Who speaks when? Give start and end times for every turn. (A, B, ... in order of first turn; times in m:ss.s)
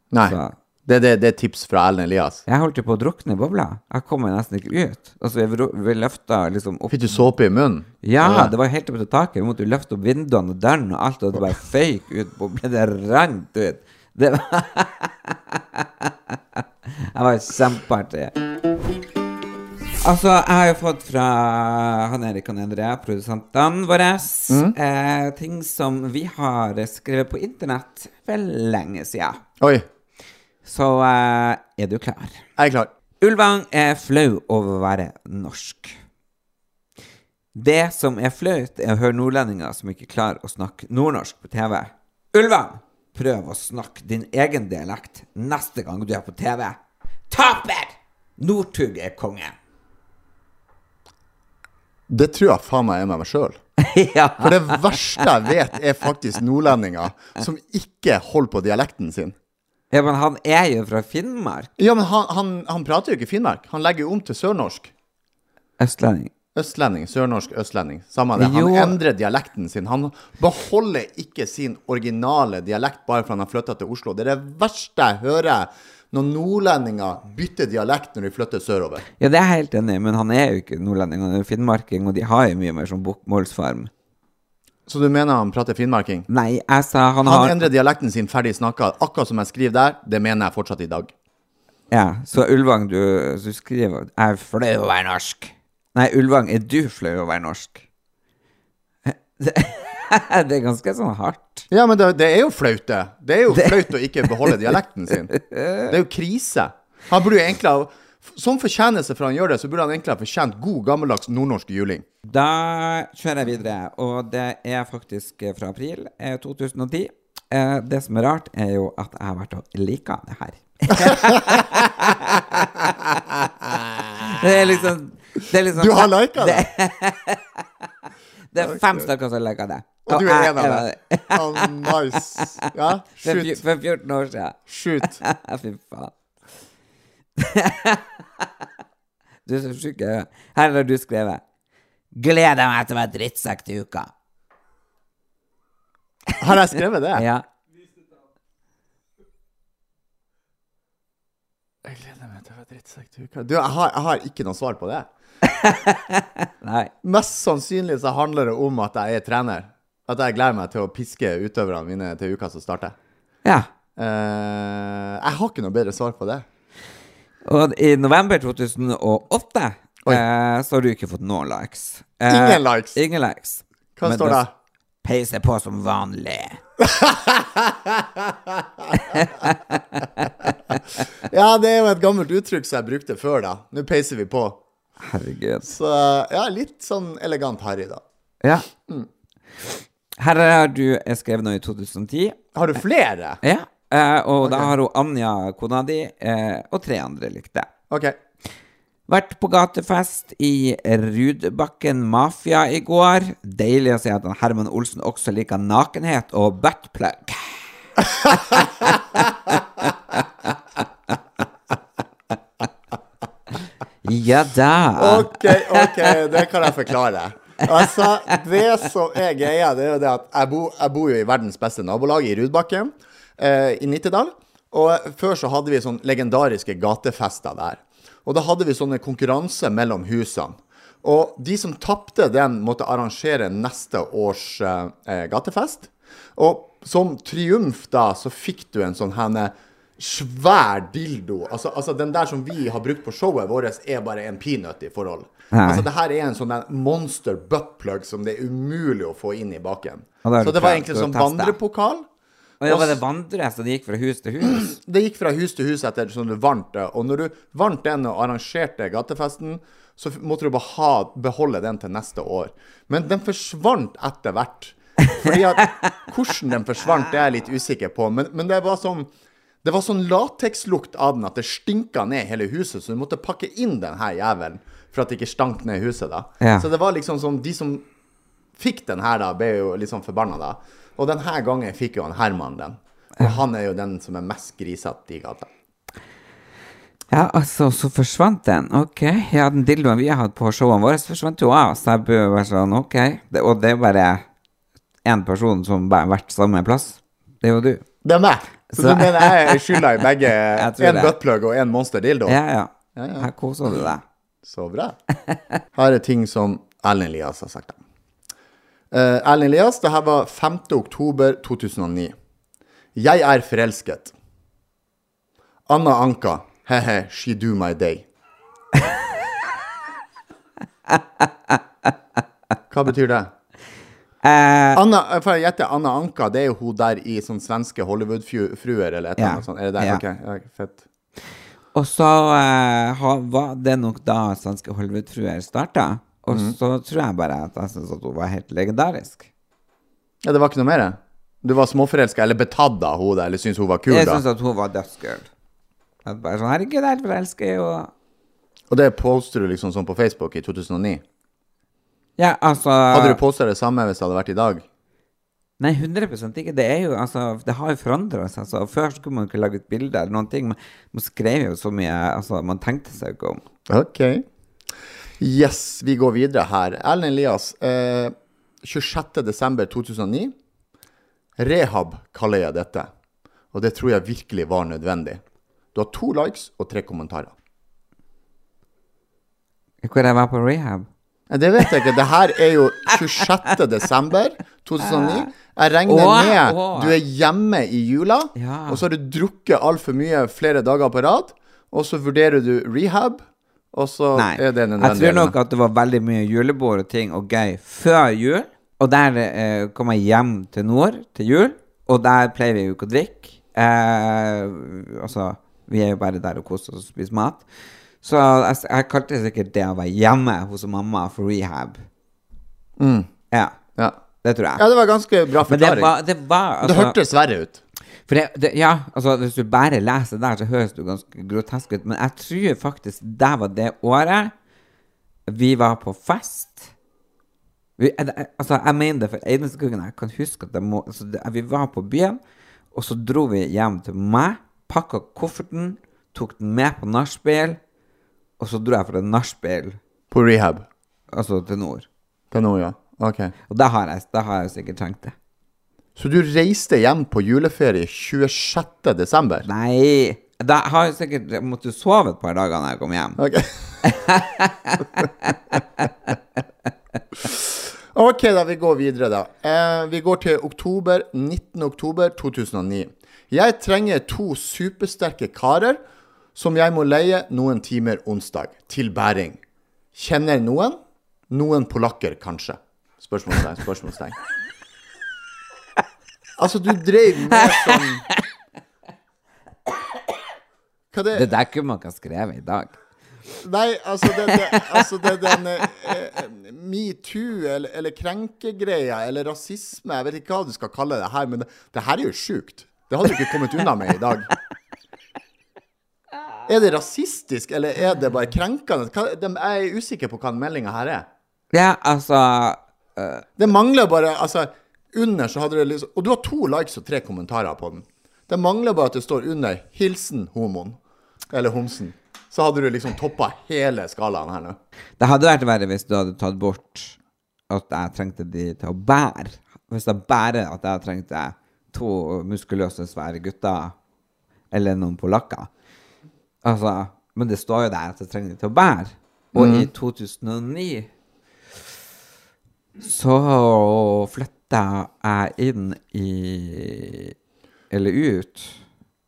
0:00.1-0:02.4 A
0:00.2-0:00.6 B
0:02.5-0:07.2 B
0:06.9-0:08.5 A
0:08.0-0:18.4 B
0:20.0-0:29.4 B
0:24.5-0:24.8 A
0:29.6-0:29.8 A
0:30.6-0:32.4 B
0:32.6-0:32.9 A
0:33.2-0:36.0 B
0:37.6-0:46.8 B
0:47.3-0:49.6 B
0:52.1-0:53.6 A
0:53.8-0:55.3 B
0:54.4-0:59.4 A
0:59.9-1:01.7 B
1:01.8-1:04.9 A
1:05.8-1:06.3 B
1:06.6-1:19.0 A
1:08.4-1:09.0 B
1:19.2-1:23.9 B
1:24.9-1:26.3 A
1:26.3-1:27.7 B
1:27.2-1:31.1 A
1:31.9-1:37.8 B
1:39.1-1:41.7 B
1:41.7-1:45.4 A
1:43.5-1:44.6 B
1:45.3-1:46.0 B
1:45.9-1:52.0 A
1:52.3-2:03.0 B
2:01.0-2:01.7 A
2:02.6-2:04.5 A
2:04.2-2:07.6 B
2:05.7-2:06.7 A
2:08.5-2:12.7 B
2:08.6-2:09.1 A
2:10.1-2:13.6 A
2:13.2-2:16.1 B
2:14.7-2:15.2 A
2:17.4-2:18.5 B
2:19.5-2:21.4 B
2:22.1-2:24.1 B
2:26.4-2:27.3 A
2:27.2-2:27.4 B
2:31.8-2:35.1 A
2:35.4-2:36.9 B
2:37.0-2:43.0 A
2:44.0-2:46.4 A
2:47.4-2:54.4 B
2:52.3-2:53.0 A
2:54.0-2:54.5 A
2:55.0-2:56.6 B
2:56.8-2:59.3 A
2:59.0-3:00.8 B
3:01.2-3:04.6 A
3:05.0-3:05.7 B
3:05.6-3:08.0 A
3:09.7-3:12.4 B
3:12.5-3:13.4 A
3:13.4-3:17.7 B
3:14.4-3:14.7 A
3:17.9-3:18.2 A
3:19.1-3:27.6 B
3:28.0-3:29.2 A
3:34.0-3:35.9 B
3:35.0-4:12.1 A
4:05.5-4:05.9 B
4:10.2-4:11.6 B
4:12.6-4:14.7 B
4:12.6-4:13.0 A
4:14.4-4:29.1 A
4:29.6-4:37.9 A
4:36.4-4:36.7 B
4:38.6-4:45.5 A
4:47.1-4:54.2 B
4:55.0-4:57.8 B
4:58.0-5:02.4 A
4:58.7-4:59.8 B
5:00.5-5:01.1 B
5:02.3-5:04.0 B
5:03.0-5:03.7 A
5:04.4-5:05.0 A
5:05.8-5:07.8 A
5:08.9-5:12.1 A
5:13.0-5:14.1 A
5:15.7-5:18.1 A
5:20.9-5:21.6 B
5:22.7-5:23.3 A
5:24.2-5:24.8 B
5:24.8-5:30.8 A
5:29.2-5:30.0 B
5:31.8-5:39.3 B
5:40.2-5:44.2 A
5:43.9-5:45.3 B
5:46.0-5:47.9 B
5:48.7-5:51.0 A
5:52.2-5:53.2 B
5:52.9-5:54.6 A
5:55.6-6:03.4 B
6:03.7-6:04.2 A
6:05.2-6:10.3 A
6:11.4-6:12.9 A
6:13.5-6:15.2 A
6:15.7-6:17.3 A
6:19.8-6:20.9 B
6:21.3-6:35.4 A
6:24.9-6:25.3 B
6:25.9-6:27.0 B
6:28.4-6:28.8 B
6:34.2-6:47.4 B
6:48.0-6:51.8 B
6:52.8-6:53.1 A
6:53.3-6:53.6 B
6:54.2-6:54.6 B
6:54.6-6:55.9 A
6:55.5-6:57.0 B
6:56.6-6:57.6 A
6:58.1-7:04.3 B
7:05.3-7:06.7 B
7:07.8-7:12.2 B
7:12.7-7:17.6 B
7:18.4-7:19.8 B
7:20.1-7:20.7 A
7:21.1-7:21.9 B
7:22.3-7:23.3 A
7:23.5-7:25.2 B
7:26.0-7:29.5 A
7:29.4-7:33.2 B
7:33.2-7:33.8 A
7:33.8-7:35.9 B
7:37.2-7:45.8 A
7:46.4-7:49.4 A
7:49.9-7:54.2 A
7:56.4-7:58.0 A
7:57.3-7:58.2 B
8:00.9-8:01.3 A
8:01.1-8:02.8 B
8:03.4-8:14.3 A
8:04.3-8:04.8 B
8:16.5-8:21.1 A
8:21.5-8:23.3 B
8:23.4-8:30.8 A
8:31.3-8:34.6 A
8:35.0-8:37.0 B
8:37.5-8:43.8 B
8:44.5-8:45.5 B
8:46.4-8:50.9 B
8:49.3-8:49.7 A
8:52.8-8:57.1 B
8:57.7-8:58.6 B